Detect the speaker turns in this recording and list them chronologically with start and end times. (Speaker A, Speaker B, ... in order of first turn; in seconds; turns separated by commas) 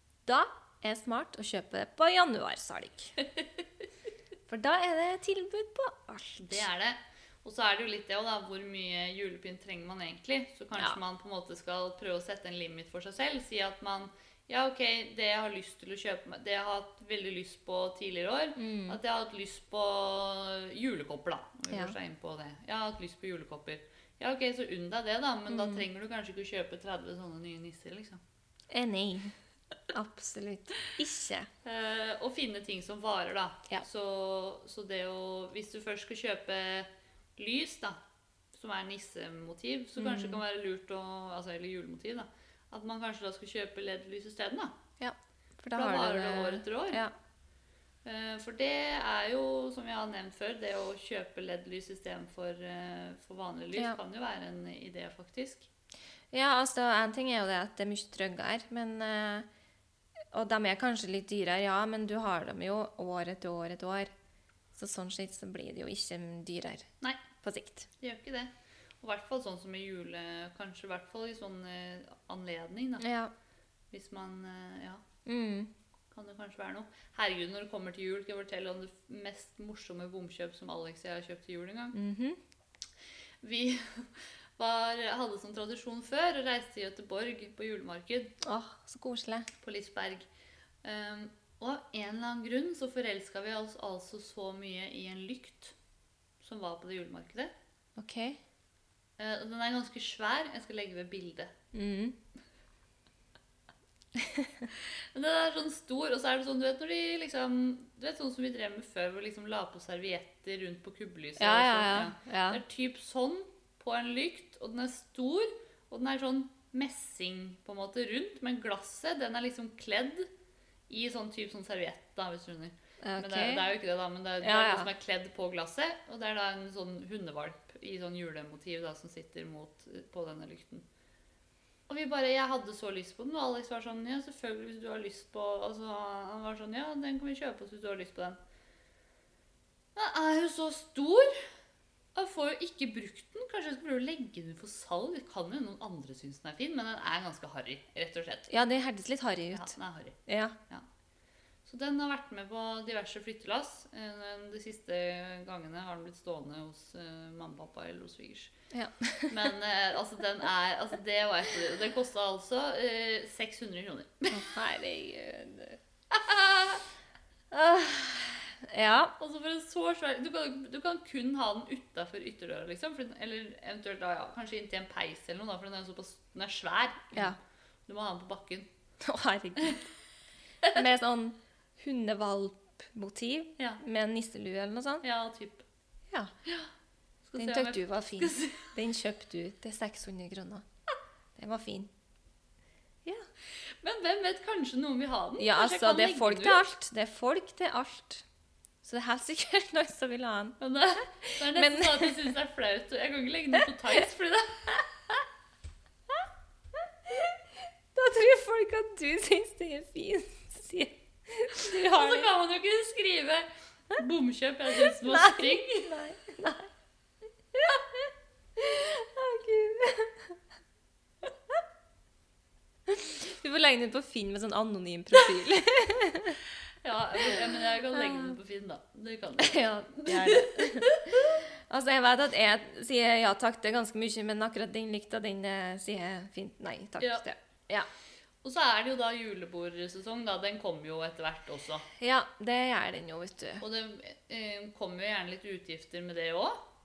Speaker A: 0.2-3.1, Speaker A: 4.5-6.6, Speaker B: 6.4-28.2, Speaker A: 18.6-19.0, Speaker A: 21.7-21.9, Speaker A: 25.5-25.9, Speaker A: 28.7-29.3, Speaker A: 29.9-31.5, Speaker B: 31.6-38.0, Speaker B: 38.5-44.7, Speaker A: 40.0-40.4, Speaker A: 45.0-47.1, Speaker B: 45.7-47.0, Speaker B: 48.0-55.7, Speaker A: 56.3-59.5, Speaker A: 60.3-64.1, Speaker A: 64.8-66.9, Speaker A: 67.4-67.9, Speaker B: 68.0-73.1, Speaker A: 73.0-73.3, Speaker B: 73.9-75.0, Speaker A: 75.2-75.7, Speaker B: 76.1-82.0, Speaker A: 81.9-82.4, Speaker B: 83.4-88.3, Speaker A: 88.4-89.5, Speaker B: 89.6-90.3, Speaker B: 90.8-95.7, Speaker B: 96.4-97.5, Speaker A: 98.0-98.4, Speaker B: 99.2-101.5, Speaker A: 101.7-102.2, Speaker A: 104.1-104.7, Speaker B: 105.1-120.3, Speaker A: 111.4-112.6, Speaker B: 120.9-130.8, Speaker A: 123.0-123.7, Speaker A: 124.4-124.9, Speaker B: 131.9-138.4, Speaker B: 139.9-141.4, Speaker B: 142.1-148.5, Speaker A: 148.5-149.7, Speaker B: 149.5-150.2, Speaker A: 150.3-150.6, Speaker B: 151.7-158.5, Speaker A: 158.7-159.5, Speaker B: 159.3-164.4, Speaker A: 164.3-165.8, Speaker B: 166.1-166.8, Speaker A: 167.5-169.1, Speaker B: 169.2-178.7, Speaker A: 179.0-179.8, Speaker A: 180.7-185.0, Speaker B: 185.0-185.6, Speaker B: 187.2-188.7, Speaker A: 187.4-190.6, Speaker A: 191.3-191.9, Speaker B: 193.8-196.6, Speaker A: 195.4-198.2, Speaker A: 198.8-200.6, Speaker B: 200.6-204.8, Speaker A: 201.2-202.2, Speaker A: 207.0-207.4, Speaker A: 207.9-212.3, Speaker B: 211.5-215.9, Speaker A: 214.9-216.7, Speaker A: 217.5-220.4, Speaker A: 222.9-226.4, Speaker B: 226.8-231.4, Speaker A: 227.2-228.3, Speaker A: 229.4-237.9, Speaker B: 237.0-237.2, Speaker B: 238.4-241.9, Speaker A: 242.0-243.6, Speaker B: 243.6-246.6